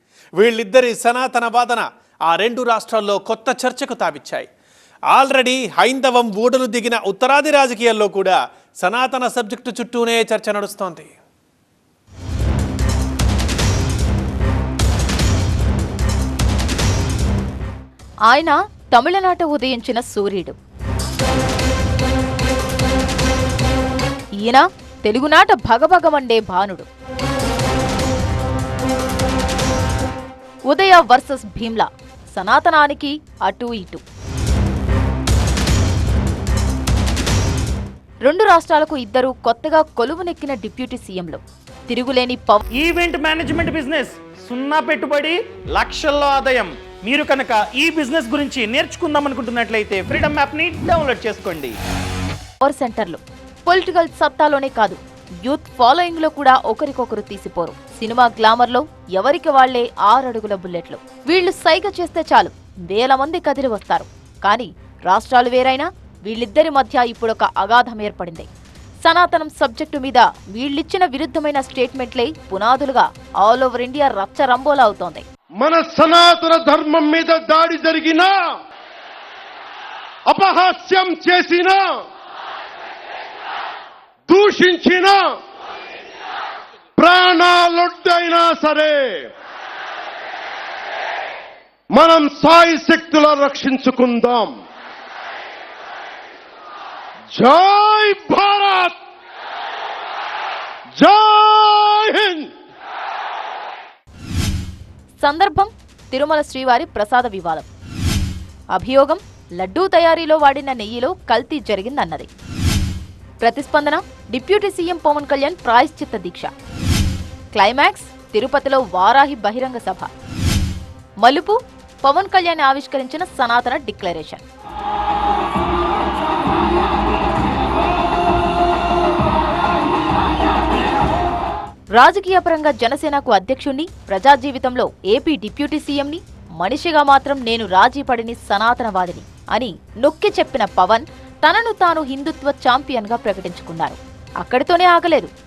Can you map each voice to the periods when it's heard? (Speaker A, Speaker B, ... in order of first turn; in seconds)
Speaker A: 0.4-4.5, 5.1-11.1
Speaker B: 18.3-20.6, 24.4-26.9, 30.7-34.0, 38.2-42.6, 52.6-68.5, 69.0-75.2, 105.2-107.7, 108.7-112.3, 113.4-116.5, 117.5-120.1, 121.2-124.4, 132.0-145.3
Speaker C: 42.8-51.8
Speaker D: 75.6-78.4, 80.3-82.0, 84.3-85.3, 87.0-89.3, 91.9-94.5, 97.3-99.0, 101.0-102.5